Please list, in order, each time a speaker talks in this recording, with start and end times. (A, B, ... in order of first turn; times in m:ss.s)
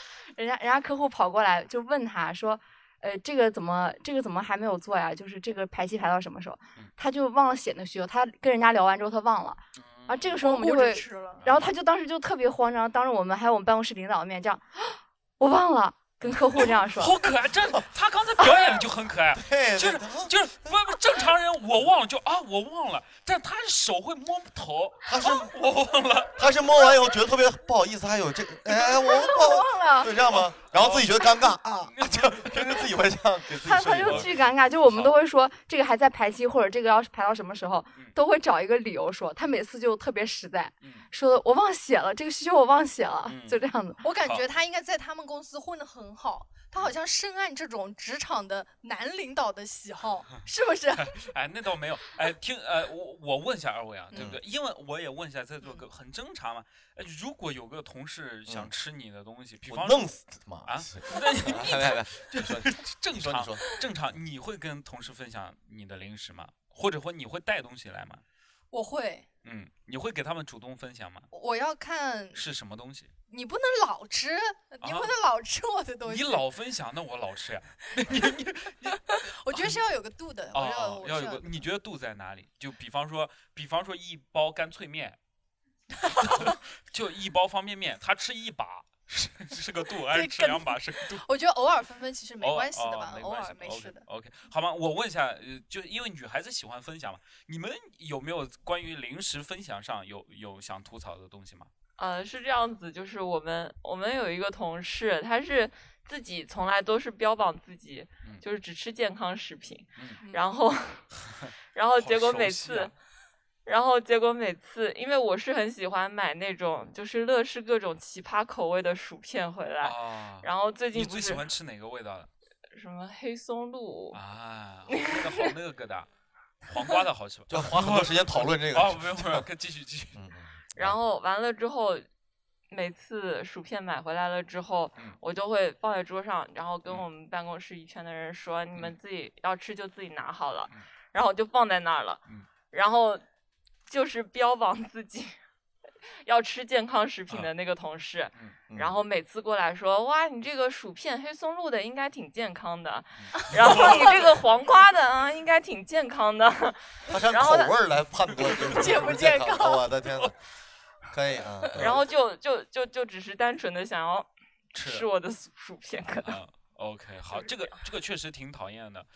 0:00.4-0:17.2 A
0:09.8-0:10.3 B
0:10.4-0:11.4 C
0:11.4-0:11.7 B
0:16.2-0:26.4 B
0:19.4-0:20.7 D
0:25.1-0:25.5 D
0:26.4-0:34.3 D
0:28.9-0:30.1 C
0:30.6-0:32.9 B
0:33.6-0:44.0 A
0:33.9-0:34.3 B
0:34.9-0:35.1 B
0:40.8-0:41.1 B
0:43.3-0:43.6 B
0:44.0-0:51.2 C
0:51.1-1:00.1 B
0:54.1-0:54.4 D
0:59.6-1:03.8 D
1:00.6-1:08.2 B
1:08.7-1:09.3 C
1:09.4-1:11.3 B
1:11.3-1:12.4 C
1:12.3-1:13.1 B
1:13.3-1:16.4 C
1:14.8-1:15.1 B
1:16.0-1:19.8 B
1:18.9-1:21.7 C
1:20.5-1:25.2 B
1:26.1-1:26.5 C
1:26.2-1:31.2 B
1:30.1-1:34.0 C
1:32.4-1:41.7 B
1:42.0-1:51.1 E
1:51.7-1:52.9 E
1:52.0-1:52.9 B
1:53.7-2:01.4 E
1:59.8-2:02.3 B
2:02.7-2:04.2 E
2:04.1-2:06.1 B
2:04.9-2:05.5 E
2:06.7-2:10.2 B
2:07.5-2:09.5 D
2:10.2-2:11.0 D
2:10.8-2:12.0 E
2:12.7-2:23.2 E
2:23.9-2:25.3 E
2:26.2-2:37.7 E
2:28.7-2:28.9 D
2:33.2-2:34.3 B
2:37.1-2:40.3 D
2:38.4-2:39.9 C
2:41.1-2:42.0 D
2:41.7-2:46.4 E
2:44.7-2:45.1 B
2:46.1-2:49.1 B